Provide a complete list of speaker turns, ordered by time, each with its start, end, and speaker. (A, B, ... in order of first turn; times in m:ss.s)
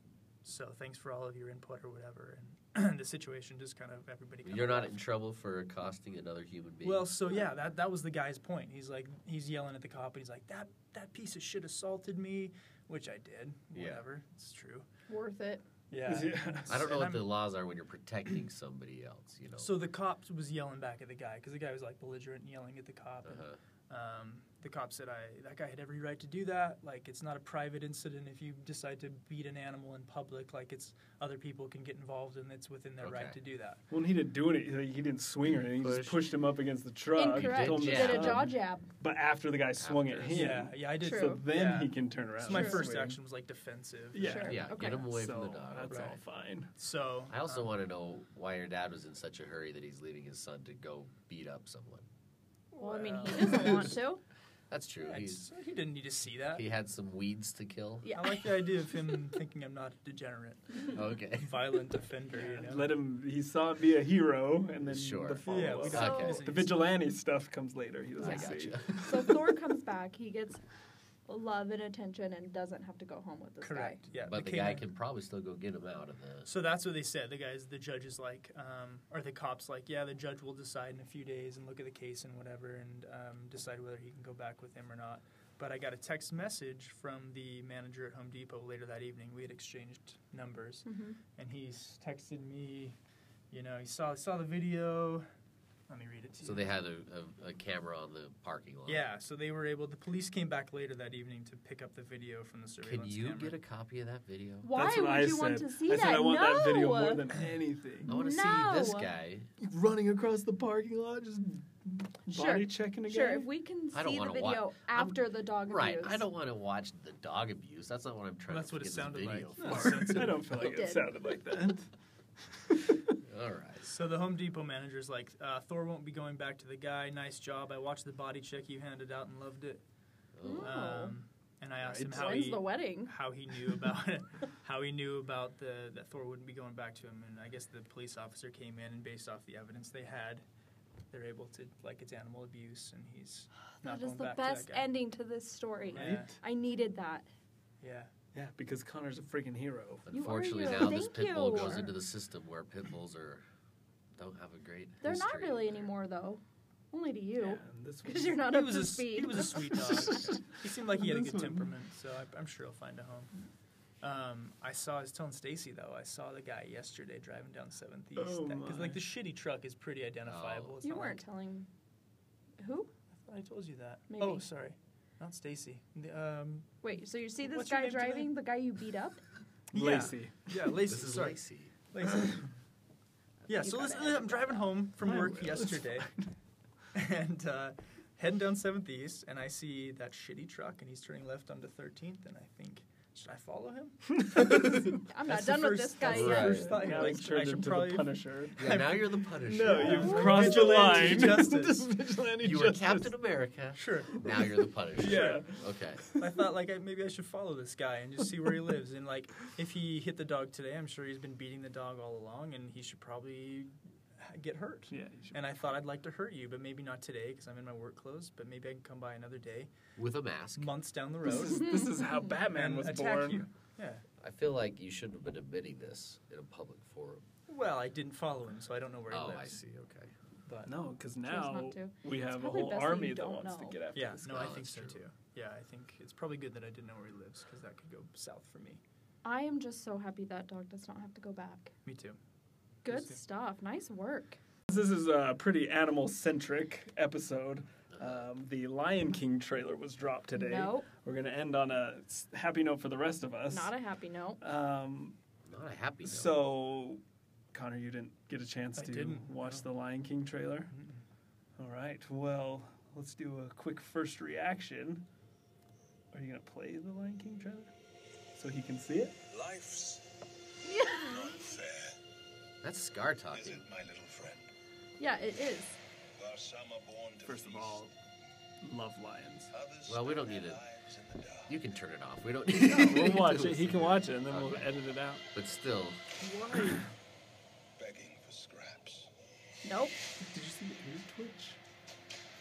0:00.4-0:05.0 A
0:04.4-0:07.1 B
0:06.8-0:14.8 A
0:13.7-0:14.0 B
0:15.1-0:15.6 C
0:15.9-0:17.3 A
0:16.0-0:16.8 D
0:16.7-0:19.7 B
0:19.6-0:33.8 A
0:23.2-0:23.6 B
0:33.0-0:33.4 B
0:33.9-0:43.2 D
0:35.8-0:36.3 B
0:37.1-0:38.9 C
0:37.3-0:38.5 B
0:39.8-0:40.6 B
0:40.3-0:44.5 A
0:41.0-0:41.4 C
0:42.5-0:42.8 C
0:44.1-0:46.7 D
0:44.1-0:45.0 C
0:44.4-0:46.2 B
0:45.9-0:46.2 A
0:46.7-0:47.7 A
0:47.3-0:52.0 B
0:52.7-0:54.0 A
0:52.8-0:54.2 C
0:54.7-0:55.5 B
0:55.0-0:56.6 A
0:56.5-0:58.1 B
0:58.0-0:58.4 C
0:58.1-1:02.9 A
1:00.9-1:01.7 B
1:02.3-1:09.4 D
1:04.8-1:06.4 B
1:05.4-1:06.9 A
1:05.9-1:06.4 C
1:08.2-1:09.1 B
1:08.2-1:10.6 C
1:11.3-1:14.0 C
1:13.6-1:14.8 A
1:14.2-1:16.5 B
1:16.4-1:33.0 A
1:30.8-1:31.2 C
1:33.5-1:35.3 A
1:35.9-1:36.7 A
1:36.4-1:39.0 B
1:38.9-1:43.6 A
1:42.8-1:44.7 B
1:44.6-1:47.3 C
1:44.7-1:48.1 D
1:48.0-1:49.5 B
1:48.1-1:49.1 C
1:49.6-1:53.5 D
1:52.3-1:56.2 C
1:53.9-2:00.3 B
1:58.5-2:00.5 A
1:59.6-2:01.9 D
2:00.5-2:01.2 C
2:02.5-2:03.0 D
2:03.2-2:04.0 B
2:03.8-2:09.8 A
2:10.4-2:10.8 B
2:10.4-2:11.1 C
2:10.6-2:20.4 A
2:11.9-2:12.4 D
2:12.0-2:13.1 C
2:21.1-2:24.9 A
2:23.8-2:27.2 C
2:25.9-2:26.4 A
2:25.9-2:26.4 D
2:27.8-2:28.1 A
2:28.3-2:30.0 D
2:30.0-2:33.4 B
2:30.1-2:31.9 C
2:34.1-2:35.9 B
2:35.0-2:36.4 C
2:36.9-2:39.7 C
2:37.4-2:38.5 D
2:38.4-2:43.3 A
2:39.8-2:41.7 D
2:44.0-2:51.2 A
2:48.2-2:49.0 D
2:50.2-2:50.7 B
2:50.8-2:51.7 C
2:52.6-2:52.9 C
2:53.2-2:56.7 A
2:54.1-2:54.4 C
2:56.8-2:59.2 C
2:57.4-2:58.3 A
2:59.7-3:00.7 D
2:59.7-3:02.5 A
3:00.8-3:01.7 B
3:03.5-3:06.1 A
3:03.5-3:04.7 C
3:05.0-3:06.3 D
3:06.9-3:18.9 A
3:14.4-3:14.8 D
3:15.0-3:17.1 C
3:16.0-3:16.7 B
3:16.3-3:23.1 D
3:18.6-3:20.6 B
3:19.7-3:21.9 A
3:19.9-3:21.2 C
3:22.4-3:26.0 B
3:23.7-3:24.2 A
3:24.3-3:25.6 D
3:25.0-3:25.4 A
3:26.2-3:39.7 A
3:34.9-3:35.4 D
3:40.0-3:40.8 B
3:40.6-3:41.9 A
3:41.2-3:43.5 D
3:42.5-3:44.0 A
3:44.2-3:47.2 B
3:47.5-3:49.6 A
3:49.1-3:50.1 B
3:50.4-3:50.7 A
3:50.6-3:54.5 D
3:51.2-3:53.8 C
3:53.9-3:58.8 A
3:54.2-3:55.0 B
3:59.2-4:01.7 C
4:01.8-4:02.2 A
4:02.8-4:04.4 C
4:02.9-4:03.2 A
4:04.7-4:13.7 D
4:07.9-4:08.3 B
4:10.3-4:10.9 C
4:13.5-4:14.4 C
4:14.4-4:15.2 D
4:15.4-4:16.4 B
4:16.0-4:17.0 D
4:17.5-4:20.7 D
4:18.8-4:19.6 A
4:20.7-4:21.0 A
4:21.6-4:25.0 D
4:26.1-4:27.7 D
4:28.3-4:29.2 D
4:29.3-4:30.1 E
4:30.6-4:31.4 C
4:30.9-4:32.0 E
4:32.6-4:33.7 B
4:33.3-4:34.5 E
4:35.0-4:35.8 C
4:36.2-4:37.8 E
4:37.2-4:37.9 D
4:38.6-4:39.5 D
4:39.5-4:41.5 E
4:39.8-4:40.6 B
4:41.5-4:44.7 B
4:42.5-4:45.2 D
4:45.3-4:46.0 B
4:46.2-4:46.8 A
4:47.8-4:49.1 E
4:49.6-4:50.0 C
4:50.2-4:51.6 D